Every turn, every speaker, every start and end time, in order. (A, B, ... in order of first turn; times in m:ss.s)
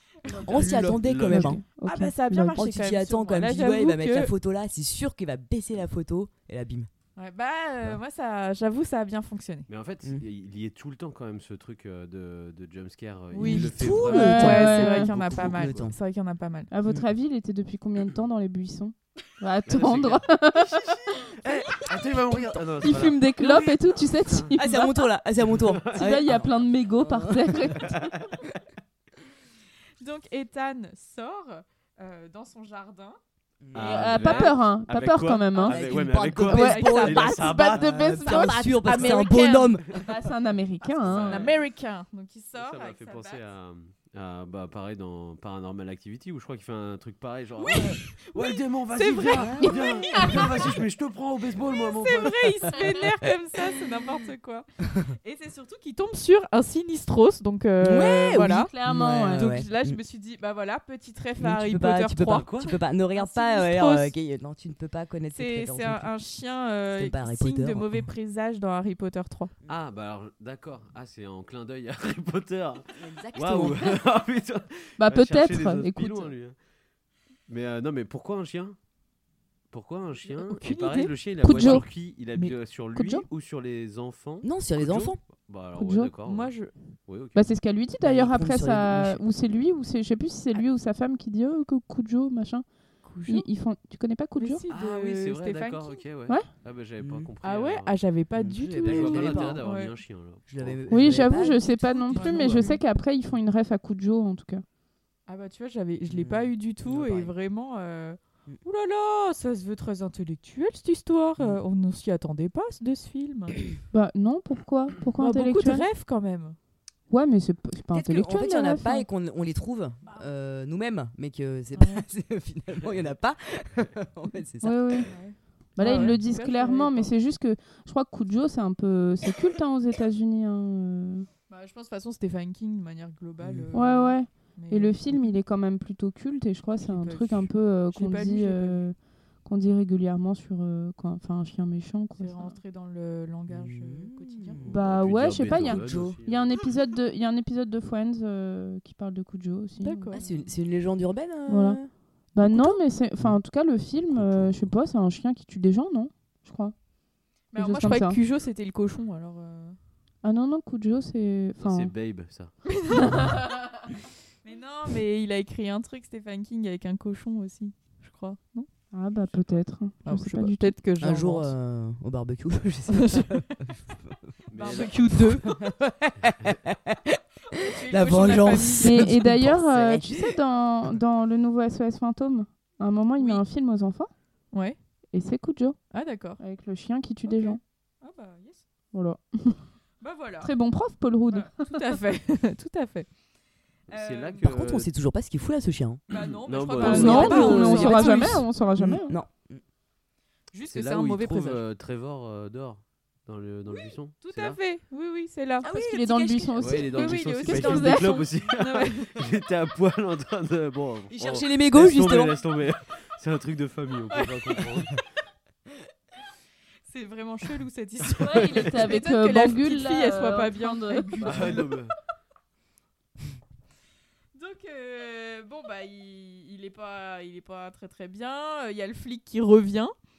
0:00.3-0:01.0 A
0:00.4-0:01.6 B
0:00.5-0:01.6 C
0:01.2-0:02.6 D
0:01.8-0:04.3 A
0:02.5-0:06.9 B
0:07.2-0:09.7 A
0:09.7-0:15.8 C
0:13.3-0:16.7 A
0:13.4-0:16.0 B
0:14.1-0:15.1 D
0:16.7-0:20.9 D
0:19.7-0:24.5 C
0:22.3-0:22.6 B
0:22.8-0:25.0 D
0:23.4-0:23.7 A
0:24.6-0:28.0 B
0:25.5-0:26.2 C
0:25.9-0:28.1 D
0:27.8-0:28.1 C
0:30.0-0:33.2 A
0:33.6-0:34.2 B
0:33.7-0:38.2 C
0:33.8-0:35.9 D
0:34.0-0:34.5 A
0:35.6-0:40.1 B
0:36.5-0:39.3 D
0:36.5-0:37.5 A
0:38.2-0:39.8 A
0:40.0-0:41.4 D
0:41.0-0:41.6 C
0:41.1-0:43.4 A
0:42.6-0:52.8 C
0:47.6-0:50.6 A
0:49.4-0:50.2 B
0:51.9-0:54.7 A
0:55.2-0:58.7 A
0:57.8-1:00.0 B
0:58.4-0:59.5 D
0:59.4-1:02.5 A
1:01.4-1:06.1 B
1:02.3-1:02.7 C
1:03.1-1:04.1 A
1:05.3-1:09.5 A
1:06.9-1:08.1 B
1:09.7-1:16.6 C
1:13.0-1:14.0 B
1:15.0-1:16.3 D
1:17.5-1:18.8 C
1:19.7-1:26.5 C
1:20.3-1:21.1 A
1:21.4-1:21.8 D
1:22.9-1:23.2 D
1:24.4-1:25.2 B
1:25.8-1:26.1 D
1:26.2-1:26.7 A
1:27.1-1:27.5 C
1:27.3-1:32.6 D
1:28.0-1:29.2 B
1:33.0-1:33.5 A
1:33.3-1:34.6 D
1:34.4-1:36.0 A
1:34.7-1:38.0 C
1:37.0-1:37.3 B
1:37.4-1:39.9 A
1:38.4-1:39.6 B
1:38.8-1:40.8 C
1:40.5-1:42.8 B
1:40.9-1:44.6 D
1:42.1-1:42.8 A
1:45.3-1:53.6 A
1:46.1-1:47.3 B
1:53.9-1:55.8 D
1:55.2-1:56.6 A
1:57.1-1:59.0 D
1:57.9-2:05.1 B
2:01.7-2:02.0 A
2:04.6-2:05.1 D
2:05.0-2:07.1 A
2:05.8-2:11.3 D
2:05.8-2:06.1 B
2:11.5-2:15.3 A
2:13.4-2:13.7 B
2:13.7-2:22.6 D
2:16.8-2:18.8 A
2:22.2-2:24.6 A
2:23.5-2:26.2 B
2:24.6-2:30.1 D
2:24.7-2:26.6 C
2:29.8-2:30.3 A
2:30.1-2:33.4 B
2:31.5-2:31.8 D
2:32.3-2:36.7 D
2:34.1-2:34.7 C
2:37.5-2:39.8 A
2:37.6-2:38.2 D
2:40.2-2:41.9 D
2:41.6-2:42.5 C
2:42.8-2:43.4 A
2:44.4-2:48.7 A
2:48.9-2:50.7 D
2:50.0-2:51.5 A
2:51.0-3:00.4 B
2:52.9-2:53.3 A
2:54.5-2:55.0 C
2:54.5-2:55.7 A
2:57.5-2:59.1 A
2:58.8-3:04.1 D
3:03.2-3:03.4 A
3:05.1-3:05.8 D
3:05.9-3:06.4 A
3:06.4-3:07.6 D
3:07.2-3:08.6 A
3:08.9-3:09.6 D
3:10.0-3:10.5 A
3:10.4-3:11.7 D
3:11.3-3:13.1 A
3:13.9-3:14.4 A
3:13.9-3:14.9 C
3:14.4-3:16.0 B
3:16.1-3:18.4 A
3:16.4-3:17.6 C
3:16.7-3:19.6 B
3:16.8-3:19.1 D
3:20.5-3:21.6 A
3:20.6-3:24.6 C
3:24.2-3:29.1 A
3:25.6-3:26.5 B
3:25.6-3:28.2 D
3:26.6-3:35.0 C
3:31.1-3:32.4 B
3:34.1-3:34.6 A
3:36.9-3:41.7 A
3:38.2-3:41.4 D
3:41.2-3:41.9 C
3:44.3-3:49.9 A